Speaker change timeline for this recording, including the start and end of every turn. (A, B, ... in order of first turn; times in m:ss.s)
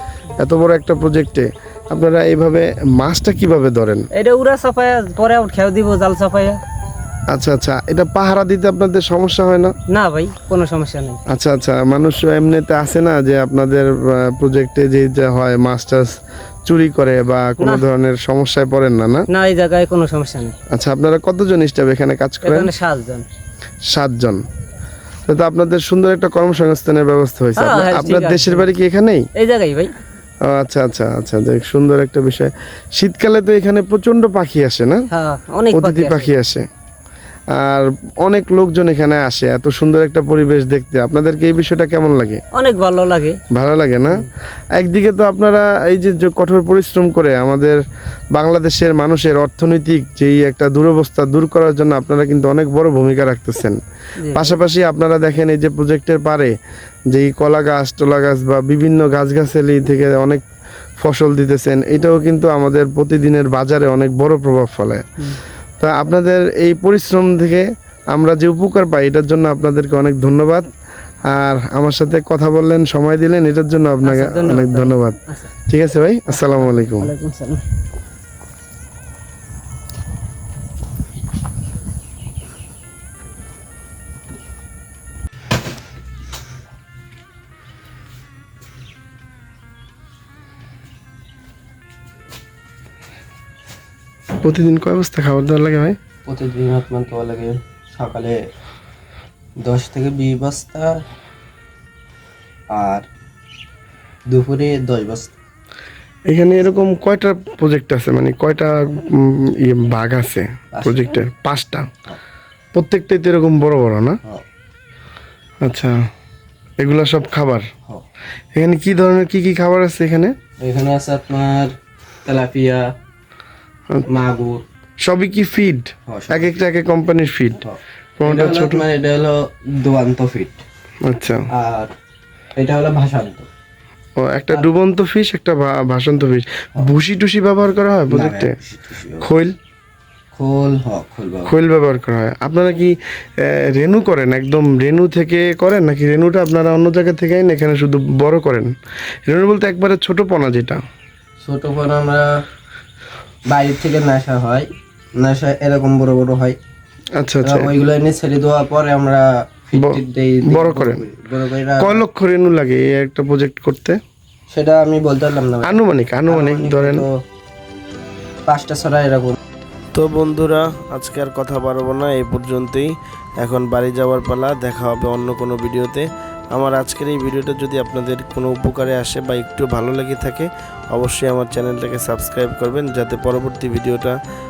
0:00.4-0:04.1 A
0:04.2-0:06.6 B
0:07.3-0:09.7 A
0:09.9-0:11.2 B
0:11.3-0:16.1 A
0:16.6-0:19.2 A
0:17.6-0:17.8 B
0:19.3-0:20.6 B
0:20.7-0:22.7 A
0:22.4-0:23.2 B
0:23.9-0:24.4 A
0:25.3-0:29.2 A
0:27.6-0:28.7 B
0:29.4-0:29.9 B
0:30.4-0:35.0 A
0:35.1-0:36.3 B
0:35.7-0:36.6 A
0:37.6-0:42.4 A
0:42.5-0:43.4 B
0:43.5-0:44.2 A
0:44.8-0:47.8 A
0:48.3-0:53.8 A
0:54.2-0:54.6 B
0:54.3-0:56.5 A
0:57.1-1:00.4 A
1:01.0-1:05.0 A
1:05.8-1:10.7 A
1:11.3-1:15.2 A
1:14.0-1:15.5 B
1:15.7-1:17.1 A
1:16.3-1:17.6 B
1:34.4-1:36.0 A
1:36.2-1:38.4 C
1:39.6-1:41.0 C
1:42.7-1:43.1 C
1:44.3-1:45.3 C
1:46.3-1:51.9 A
1:50.7-1:51.2 C
1:52.7-1:54.2 A
1:55.6-1:55.9 A
1:56.8-1:57.6 A
1:58.6-2:00.3 A
2:00.6-2:01.7 C
2:02.2-2:02.9 C
2:04.1-2:04.6 C
2:05.0-2:07.6 A
2:06.0-2:06.6 C
2:07.6-2:10.6 C
2:08.2-2:08.8 A
2:11.0-2:11.4 A
2:11.5-2:11.9 C
2:12.5-2:13.5 C
2:14.2-2:18.5 A
2:18.1-2:19.2 C
2:19.2-2:19.5 A
2:20.3-2:21.5 C
2:21.5-2:28.7 A
2:29.3-2:30.8 A
2:31.4-2:32.3 C
2:33.5-2:36.6 C
2:37.2-2:37.7 A
2:37.4-2:42.0 C
2:39.8-2:41.0 A
2:41.8-2:44.0 A
2:44.5-2:47.1 C
2:45.6-2:47.0 A
2:48.5-2:49.4 C
2:49.9-3:04.2 A